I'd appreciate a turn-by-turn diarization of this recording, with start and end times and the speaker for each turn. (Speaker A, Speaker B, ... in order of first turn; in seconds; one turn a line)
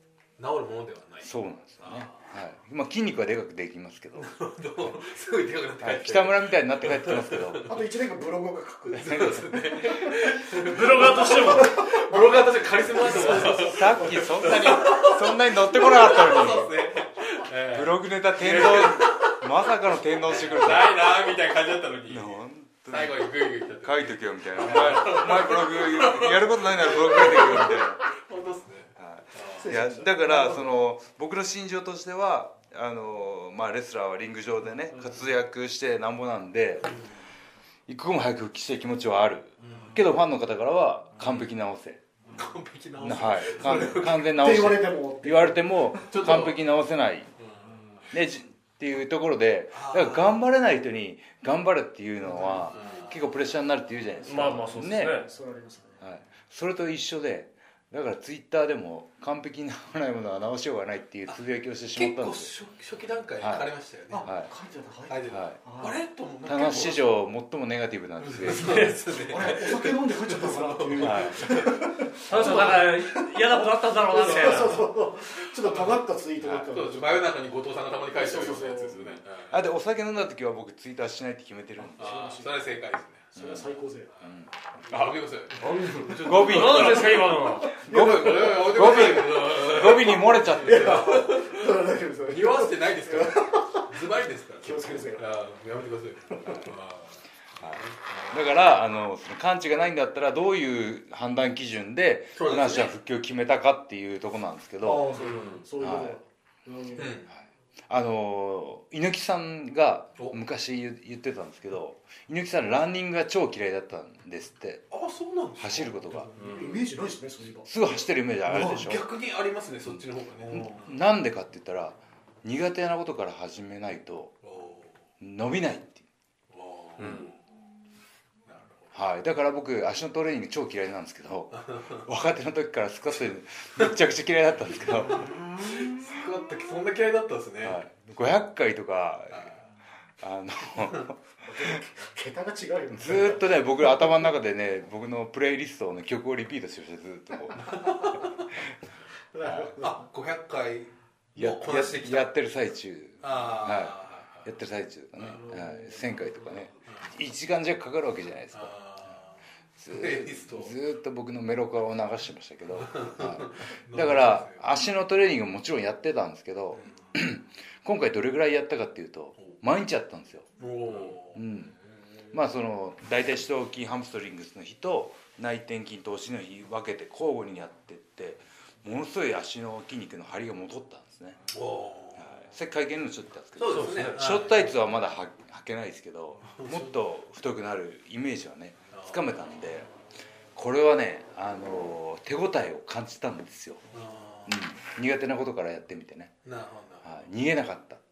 Speaker A: 0.4-2.2
Speaker B: 1.2-4.3
Speaker A: 4.2-7.8
Speaker B: 5.8-7.7
Speaker C: 7.7-10.2
Speaker A: 8.9-19.5
Speaker B: 9.1-9.4
Speaker D: 10.6-11.8
Speaker C: 11.2-14.5
Speaker B: 13.2-16.8
Speaker B: 17.7-21.3
Speaker A: 20.2-29.7
Speaker B: 22.1-23.2
Speaker B: 23.8-28.0
Speaker B: 29.0-37.0
Speaker C: 29.6-30.7
Speaker B: 37.9-42.0
Speaker A: 39.6-40.0
Speaker A: 41.2-41.5
Speaker A: 42.3-44.4
Speaker B: 43.0-47.3
Speaker C: 44.3-46.1
Speaker A: 46.1-46.6
Speaker A: 47.4-47.6
Speaker B: 48.1-55.2
Speaker A: 49.7-50.4
Speaker C: 52.3-52.7
Speaker A: 52.5-53.3
Speaker D: 54.3-55.3
Speaker C: 54.9-56.0
Speaker B: 56.0-62.5
Speaker A: 61.9-64.3
Speaker B: 63.4-63.7
Speaker C: 64.1-66.0
Speaker B: 64.2-64.5
Speaker A: 65.1-67.0
Speaker B: 65.3-65.6
Speaker B: 66.5-68.9
Speaker A: 68.2-71.8
Speaker D: 68.5-69.0
Speaker C: 69.3-73.4
Speaker B: 71.0-71.6
Speaker D: 72.3-74.9
Speaker A: 72.3-72.8
Speaker C: 74.0-77.2
Speaker A: 74.3-74.8
Speaker A: 75.3-79.6
Speaker C: 78.1-79.2
Speaker B: 79.5-82.3
Speaker C: 81.8-82.8
Speaker A: 82.0-83.3
Speaker B: 83.3-83.7
Speaker C: 83.3-84.1
Speaker B: 84.2-85.2
Speaker A: 84.9-86.0
Speaker D: 85.6-87.8
Speaker B: 86.2-91.1
Speaker C: 86.5-87.0
Speaker A: 86.5-87.3
Speaker C: 87.6-89.2
Speaker A: 87.8-91.8
Speaker C: 90.6-94.0
Speaker A: 92.3-98.6
Speaker C: 94.6-95.3
Speaker B: 97.6-105.1
Speaker A: 102.4-102.9
Speaker C: 104.8-107.2
Speaker D: 105.2-105.6
Speaker B: 105.8-106.2
Speaker A: 107.0-107.3
Speaker B: 107.3-114.9
Speaker A: 114.9-116.8
Speaker B: 115.6-116.3
Speaker D: 116.4-116.7
Speaker C: 116.4-118.9
Speaker B: 117.7-119.0
Speaker A: 118.5-120.9
Speaker C: 120.5-120.8
Speaker B: 120.5-124.3
Speaker A: 124.4-124.9
Speaker B: 125.2-126.0
Speaker A: 126.5-127.2
Speaker B: 127.0-127.2
Speaker D: 127.0-127.3
Speaker A: 128.5-128.9
Speaker B: 128.9-135.3
Speaker A: 131.5-132.1
Speaker A: 133.1-134.0
Speaker A: 134.7-137.8
Speaker B: 137.6-139.5
Speaker A: 139.3-139.6
Speaker B: 140.2-141.7
Speaker C: 141.4-143.9
Speaker B: 142.9-148.6
Speaker A: 147.7-148.1
Speaker C: 149.3-150.0
Speaker B: 149.4-149.7
Speaker A: 149.8-152.3
Speaker B: 151.4-158.7
Speaker A: 153.2-154.5
Speaker A: 155.2-155.4
Speaker C: 155.3-156.7
Speaker A: 158.5-159.4
Speaker B: 159.8-171.7
Speaker A: 159.9-160.8
Speaker A: 162.8-164.7
Speaker A: 170.6-171.4
Speaker B: 172.3-181.4
Speaker A: 181.5-182.3
Speaker B: 182.2-189.9
Speaker A: 183.6-184.7
Speaker D: 183.7-184.2
Speaker A: 186.4-186.9
Speaker A: 188.9-189.3
Speaker B: 190.6-193.8
Speaker A: 193.9-194.6
Speaker B: 194.5-196.3
Speaker A: 196.4-197.1
Speaker B: 197.0-198.0